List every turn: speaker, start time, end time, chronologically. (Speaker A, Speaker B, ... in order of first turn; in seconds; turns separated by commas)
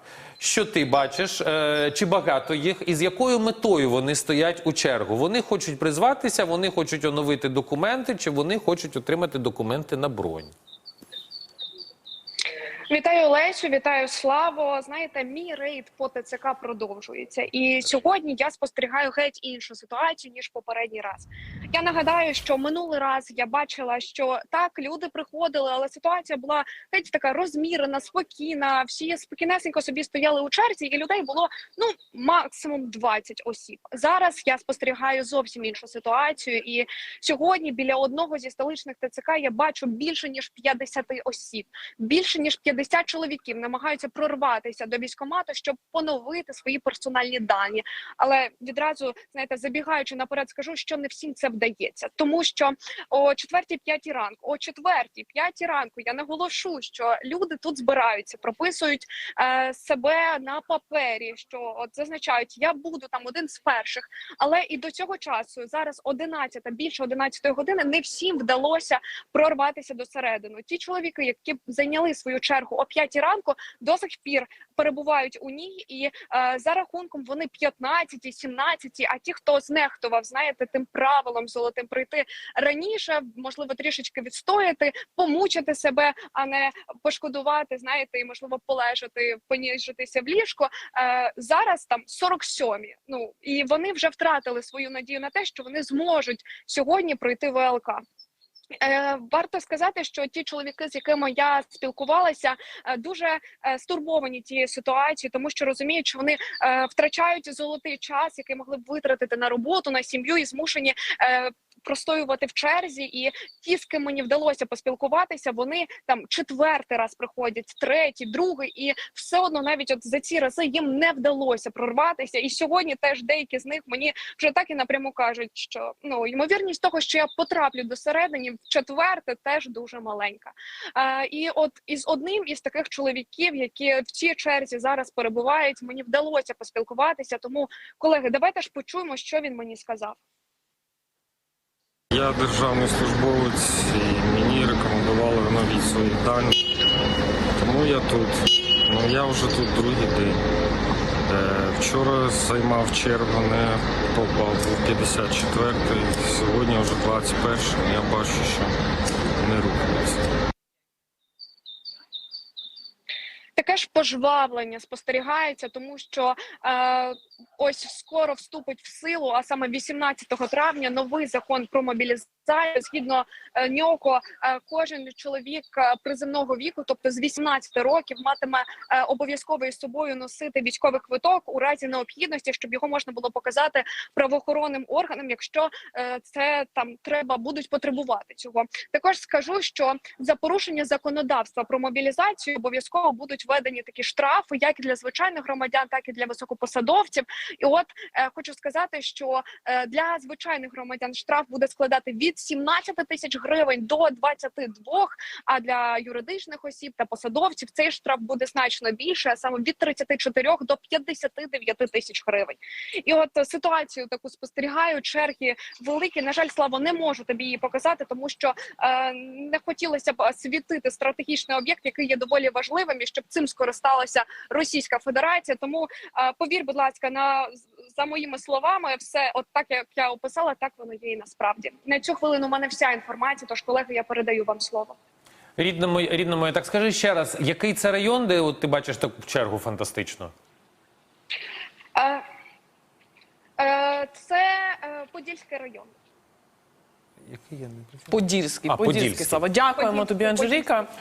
Speaker A: 0.4-10.5, Speaker B: 12.9-98.0, Speaker B: 98.8-140.2, Speaker C: 142.1-146.6, Speaker C: 147.6-150.5, Speaker C: 151.3-158.8, Speaker C: 159.4-160.3, Speaker B: 163.6-235.0, Speaker A: 235.6-240.3, Speaker B: 242.0-242.2, Speaker B: 243.6-245.9, Speaker A: 247.3-248.2, Speaker D: 248.1-250.9, Speaker A: 248.7-249.4, Speaker B: 249.8-250.8